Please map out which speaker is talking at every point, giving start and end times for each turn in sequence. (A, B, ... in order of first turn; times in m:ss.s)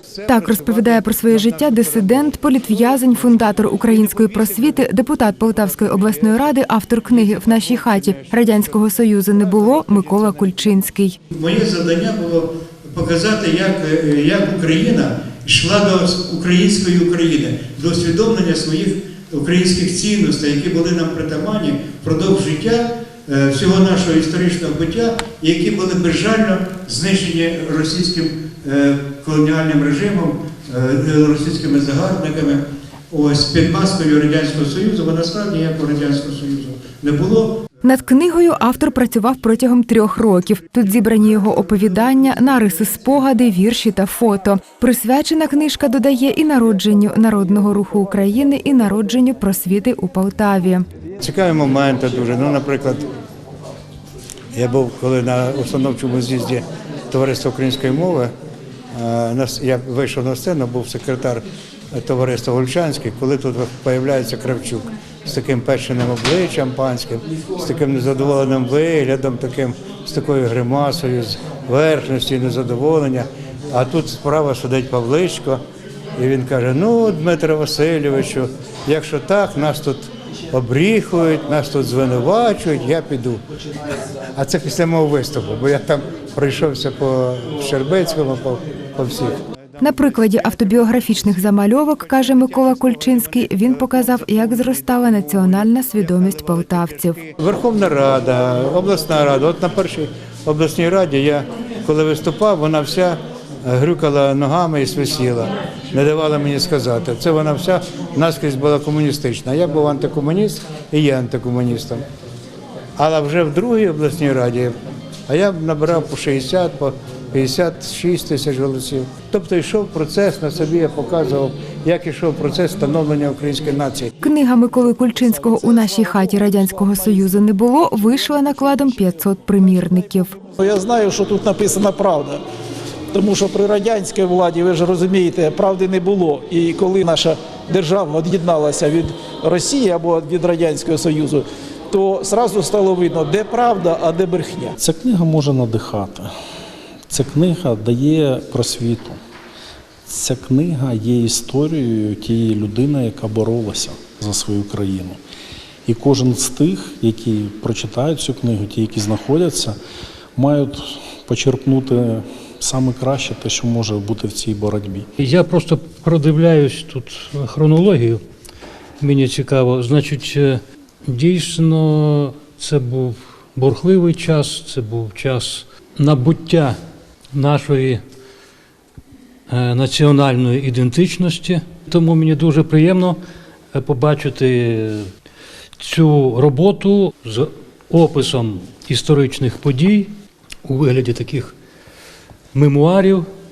0:00.2-0:11.2 A
0:11.3-0:37.5 B
0:37.8-0:50.8 A
0:51.2-0:53.1 B
0:54.5-0:58.3 B
0:58.9-1:15.6 B
1:16.2-1:23.4 B
1:24.4-1:29.4 B
1:29.8-1:37.2 A
1:37.3-1:52.0 B
1:53.0-1:54.7 B
1:55.3-2:04.1 B
2:04.2-2:10.4 A
2:10.5-2:12.4 C
2:13.1-2:24.7 C
2:24.8-2:26.3 D
2:27.1-2:29.2 D
2:30.1-2:35.2 D
2:35.8-2:39.8 D
2:40.4-2:45.1 D
2:45.2-2:48.2 E
2:49.0-2:56.8 E
2:57.3-2:58.0 E
2:59.5-3:03.2 E
3:03.7-3:05.1 E
3:05.8-3:10.1 E
3:10.6-3:11.5 E
3:12.5-3:13.3 E